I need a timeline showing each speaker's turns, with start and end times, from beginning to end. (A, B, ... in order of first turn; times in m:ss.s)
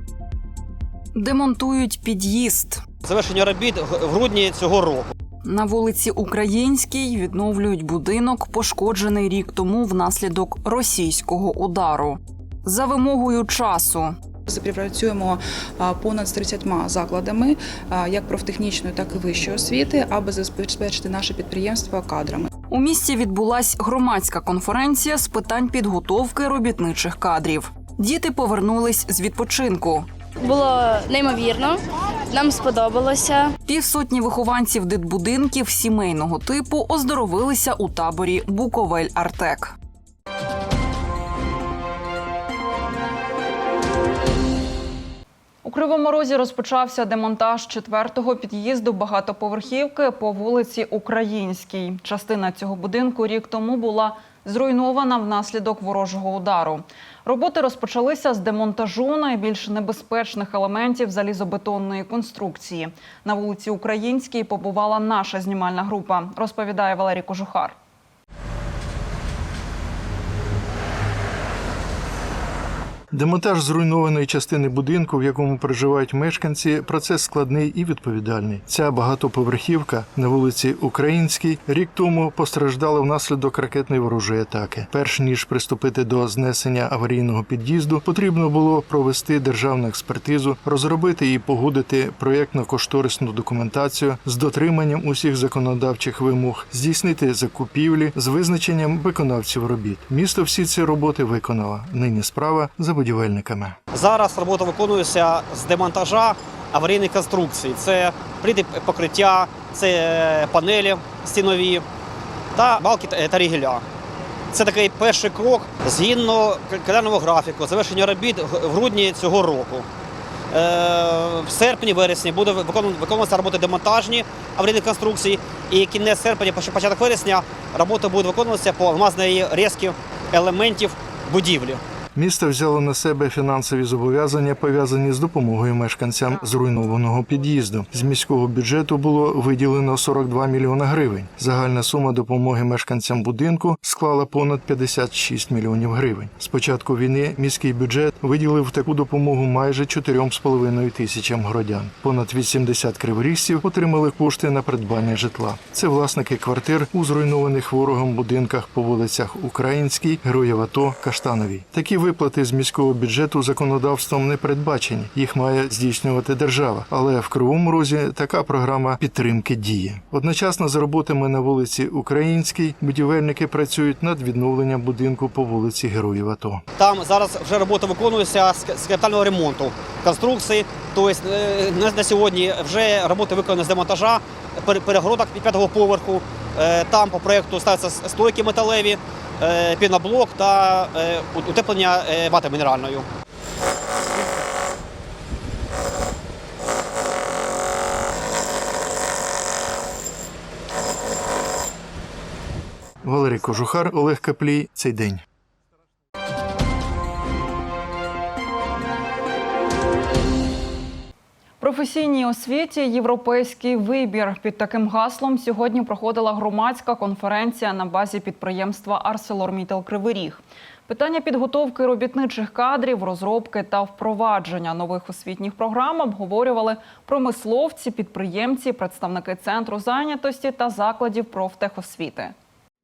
0:01.1-0:02.8 A
0:03.0-0:05.1 B
0:05.4-0:14.1 A
0:14.5-0:22.5 C
0:22.7-0:30.0 A
0:30.4-0:31.8 D
0:32.3-0:33.5 D
0:33.6-0:39.7 A
0:45.6-1:07.8 A
1:13.1-1:43.8 E
1:43.9-1:51.8 B
1:52.5-1:53.8 B
1:54.5-1:59.8 B
2:00.5-2:11.8 B
2:12.2-2:56.6 E
2:56.8-3:13.0 B
3:23.0-3:25.2 E
3:31.6-3:52.3 A